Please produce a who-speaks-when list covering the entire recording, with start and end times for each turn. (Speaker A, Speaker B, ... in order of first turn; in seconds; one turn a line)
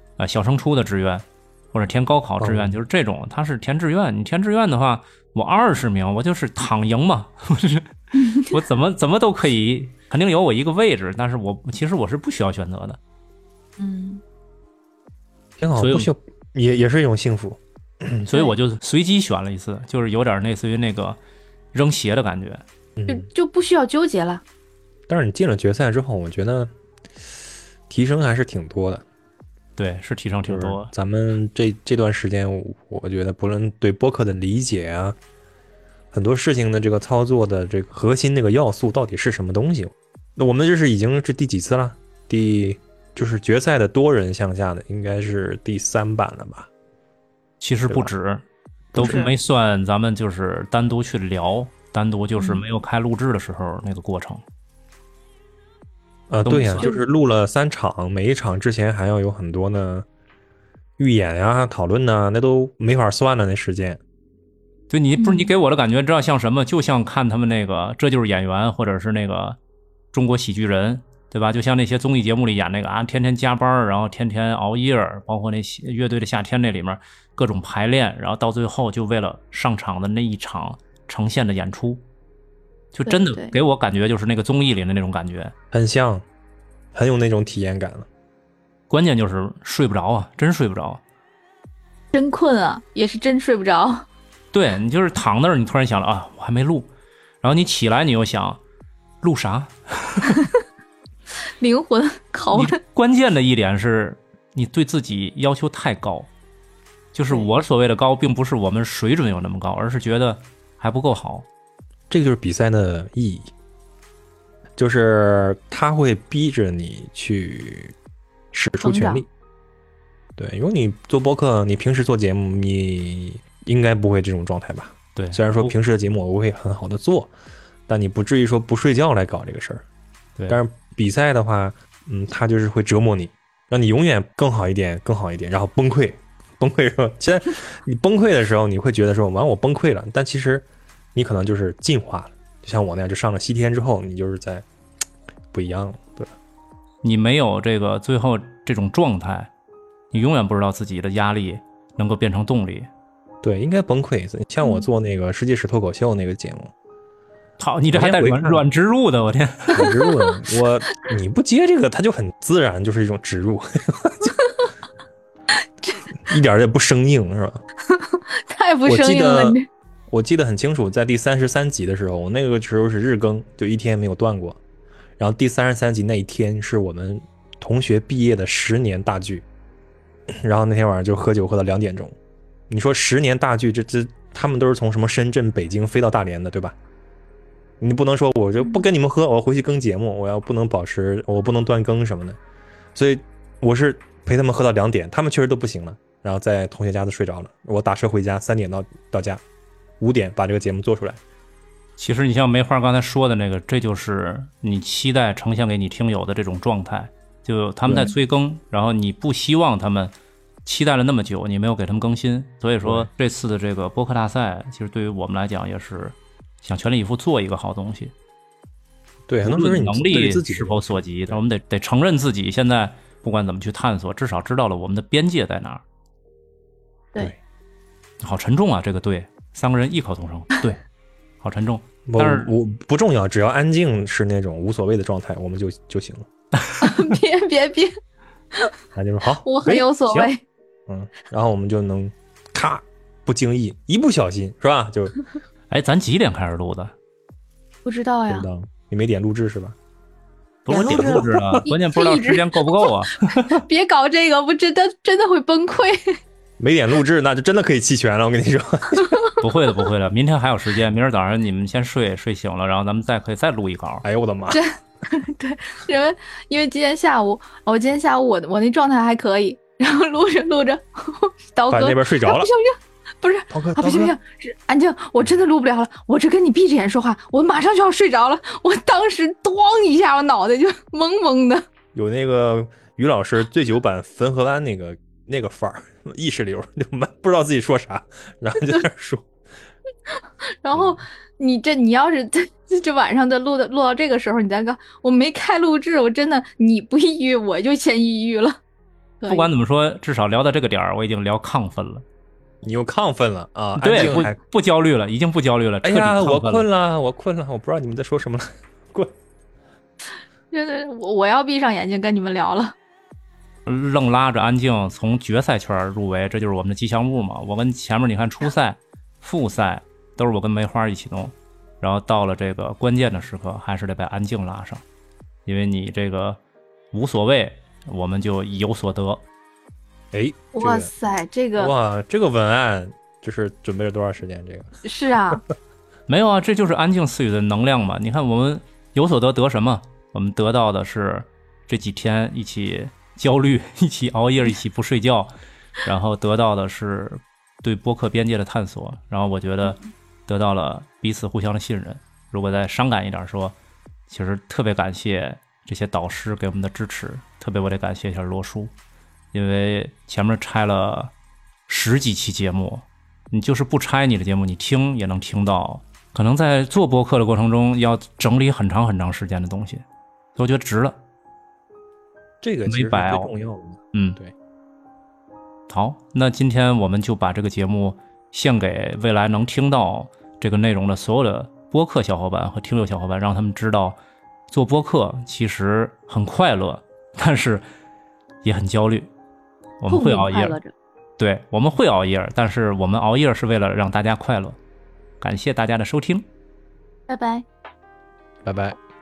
Speaker A: 0.2-13.0
Speaker B: 2.4-2.8
Speaker C: 8.2-8.6
Speaker C: 13.8-14.2
Speaker B: 15.6-18.3
Speaker A: 15.8-16.1
Speaker A: 18.3-21.2
Speaker A: 21.7-22.6
Speaker B: 23.0-23.3
Speaker C: 23.1-24.4
Speaker B: 25.1-26.7
Speaker B: 27.9-29.0
Speaker A: 29.8-30.9
Speaker B: 30.5-35.2
Speaker B: 36.1-46.7
Speaker A: 47.6-48.4
Speaker B: 48.9-49.2
Speaker A: 49.0-54.4
Speaker C: 49.0-49.3
Speaker C: 52.4-52.6
Speaker B: 56.3-60.1
Speaker A: 56.4-56.9
Speaker B: 61.0-64.0
Speaker A: 64.9-69.6
Speaker C: 65.2-65.5
Speaker A: 70.1-82.0
Speaker A: 82.9-85.5
Speaker C: 83.1-83.5
Speaker B: 85.7-86.2
Speaker B: 86.9-88.1
Speaker A: 88.9-91.0
Speaker C: 92.1-94.0
Speaker A: 94.5-96.9
Speaker A: 97.4-98.6
Speaker A: 99.2-100.4
Speaker C: 101.6-102.8
Speaker A: 102.5-106.3
Speaker A: 107.1-111.5
Speaker B: 112.1-113.5
Speaker B: 114.8-118.0
Speaker B: 118.5-119.3
Speaker C: 118.8-119.2
Speaker B: 120.4-127.3
Speaker A: 125.2-125.7
Speaker B: 127.9-129.8
Speaker B: 130.5-144.7
Speaker B: 145.5-146.3
Speaker A: 147.0-149.5
Speaker A: 150.1-152.9
Speaker B: 153.4-156.7
Speaker A: 157.6-159.9
Speaker B: 157.9-158.7
Speaker B: 159.8-164.3
Speaker C: 159.8-160.3
Speaker C: 164.4-164.7
Speaker B: 166.2-167.6
Speaker C: 167.9-169.6
Speaker B: 168.9-169.6
Speaker B: 170.1-174.6
Speaker B: 175.2-179.5
Speaker B: 180.4-182.2
Speaker B: 182.7-186.8
Speaker B: 187.8-192.4
Speaker C: 188.6-188.9
Speaker B: 192.9-199.4
Speaker B: 200.0-201.2
Speaker A: 202.0-210.1
Speaker B: 207.8-208.2
Speaker A: 210.7-218.1
Speaker B: 212.8-213.1
Speaker B: 219.3-221.4
Speaker A: 219.4-225.8
Speaker A: 228.2-230.8
Speaker A: 231.4-232.5
Speaker B: 232.1-236.3
Speaker A: 236.6-237.1
Speaker C: 236.8-237.9
Speaker B: 238.9-240.3
Speaker C: 239.4-240.4
Speaker B: 240.9-245.2
Speaker A: 245.7-246.9
Speaker C: 247.8-248.5
Speaker B: 248.3-249.8
Speaker A: 250.7-253.6
Speaker C: 250.7-256.2
Speaker B: 250.7-251.6
Speaker B: 256.6-259.2
Speaker C: 259.0-259.4
Speaker A: 259.4-264.0
Speaker B: 264.0-264.6
Speaker C: 264.5-281.6
Speaker B: 271.7-272.5
Speaker B: 273.5-274.2
Speaker B: 281.9-289.3
Speaker C: 290.6-298.6
Speaker B: 290.7-291.0
Speaker C: 299.2-299.5
Speaker A: 299.3-302.0
Speaker B: 302.6-304.4
Speaker A: 303.8-306.7
Speaker B: 305.8-309.1
Speaker C: 310.5-312.8
Speaker A: 313.7-324.8
Speaker A: 325.5-326.4
Speaker A: 326.9-329.2
Speaker B: 330.1-330.9
Speaker C: 330.5-331.7
Speaker B: 331.6-334.8
Speaker C: 334.8-335.4
Speaker A: 336.1-345.3
Speaker A: 345.8-353.6
Speaker A: 354.1-358.7
Speaker A: 359.3-361.1
Speaker A: 361.7-369.8
Speaker A: 370.4-371.0
Speaker B: 372.4-374.3
Speaker A: 372.7-373.3
Speaker A: 373.9-374.2
Speaker A: 375.7-384.0
Speaker A: 384.5-387.6
Speaker A: 388.4-389.1
Speaker A: 389.8-390.6
Speaker C: 389.9-390.7
Speaker A: 391.2-394.6
Speaker A: 395.2-396.3
Speaker C: 397.1-397.4
Speaker B: 398.4-398.8